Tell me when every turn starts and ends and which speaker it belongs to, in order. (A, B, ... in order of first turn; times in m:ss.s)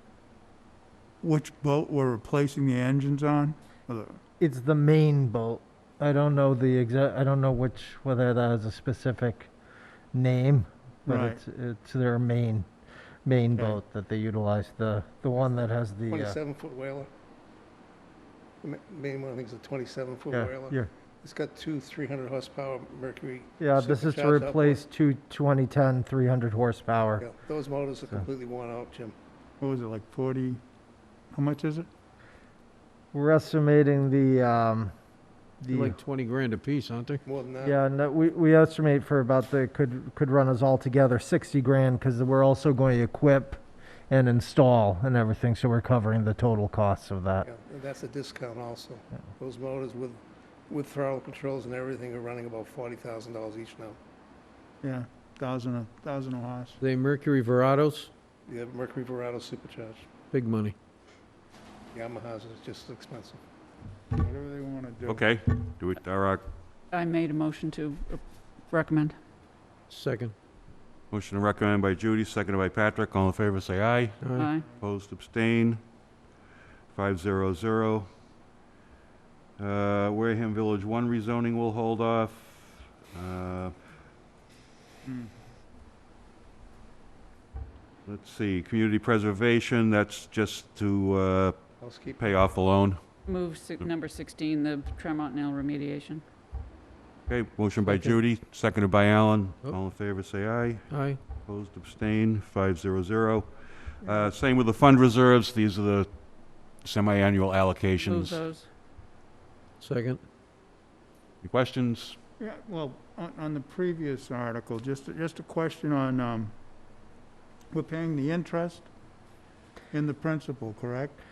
0:01.2-0:04.2 A
0:04.4-0:09.5 B
0:10.1-0:12.7 B
0:11.1-0:11.4 A
0:13.2-0:16.4 B
0:13.5-0:13.8 A
0:16.1-0:17.1 C
0:18.6-0:24.8 C
0:20.3-0:20.9 B
0:23.6-0:27.3 B
0:27.2-0:29.1 C
0:29.6-0:30.6 A
0:31.3-0:31.9 A
0:33.1-0:34.9 B
0:35.6-0:36.0 B
0:35.7-0:37.2 D
0:37.2-0:37.8 C
0:37.6-0:47.5 B
0:47.4-0:54.0 C
0:54.8-0:56.8 A
0:56.8-0:58.1 D
0:58.5-1:00.0 C
1:00.3-1:00.8 D
1:01.9-1:03.4 C
1:04.1-1:05.2 A
1:05.0-1:06.4 E
1:06.9-1:09.2 F
1:09.9-1:10.3 D
1:11.1-1:15.8 E
1:14.2-1:14.5 D
1:14.3-1:14.6 F
1:16.9-1:18.1 E
1:19.6-1:23.7 E
1:25.0-1:25.3 A
1:28.0-1:31.6 E
1:31.8-1:32.3 C
1:32.2-1:33.0 E
1:33.3-1:36.2 F
1:37.3-1:48.4 E
1:37.8-1:38.2 D
1:40.9-1:41.2 D
1:44.0-1:44.3 A
1:48.0-1:48.7 F
1:49.8-1:50.2 D
1:51.4-1:52.2 E
1:52.4-1:56.5 A
1:57.7-1:58.9 A
1:59.9-2:01.1 A